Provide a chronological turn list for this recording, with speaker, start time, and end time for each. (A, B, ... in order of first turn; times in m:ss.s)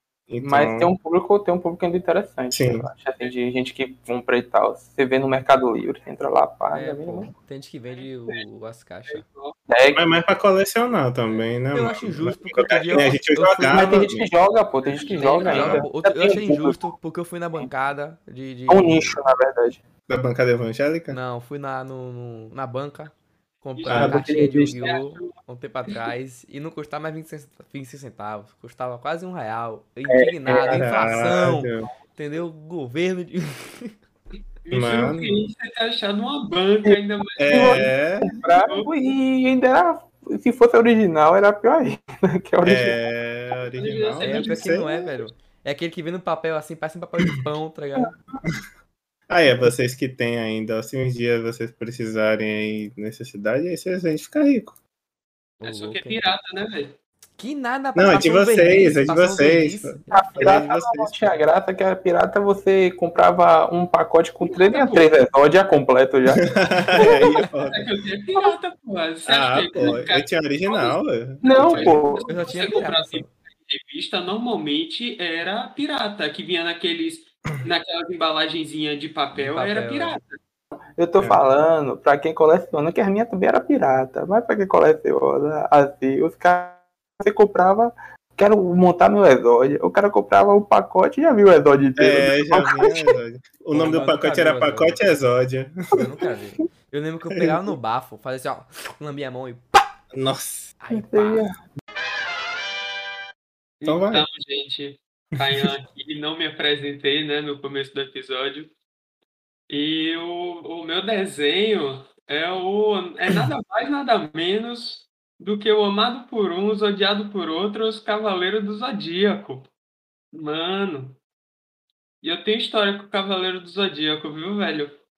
0:00.3-0:00.9 A
0:00.4-0:07.3 B
0:02.5-0:02.9 A
0:06.7-0:09.2 C
0:08.0-0:08.4 D
0:09.1-0:09.6 D
0:09.7-0:10.0 B
0:09.9-0:14.3 A
0:11.3-0:13.8 C
0:13.6-0:16.8 B
0:14.9-0:15.6 D
0:15.5-0:19.2 C
0:15.5-0:15.9 A
0:18.7-0:19.8 B
0:20.1-0:21.2 A
0:21.1-0:33.9 C
0:23.8-0:24.2 D
0:23.9-0:24.2 A
0:23.9-0:24.9 B
0:24.8-0:25.3 D
0:30.1-0:30.9 B
0:30.6-0:31.9 A
0:34.6-0:37.9 D
0:34.7-0:35.4 A
0:36.8-0:43.0 B
0:37.4-0:38.3 A
0:38.5-0:38.9 D
0:42.6-0:44.9 A
0:43.7-0:45.1 D
0:44.2-0:48.2 C
0:49.3-0:54.8 A
0:55.6-0:57.0 D
0:55.6-0:56.2 C
0:57.4-1:00.6 C
0:58.0-1:01.4 A
1:00.1-1:07.2 B
1:04.4-1:05.1 D
1:06.4-1:07.9 A
1:07.2-1:07.5 C
1:07.6-1:11.0 D
1:09.3-1:12.1 A
1:11.4-1:12.3 B
1:11.5-1:20.4 D
1:12.3-1:13.3 C
1:19.4-1:20.2 C
1:21.0-1:33.2 B
1:32.0-1:36.0 A
1:33.7-1:35.0 C
1:35.9-1:39.9 C
1:37.3-1:37.7 A
1:40.1-1:40.7 A
1:40.8-1:41.5 C
1:40.9-1:41.6 B
1:43.8-1:48.7 D
1:43.8-1:44.3 A
1:49.7-1:59.7 D
2:00.3-2:01.2 D
2:02.2-2:04.9 D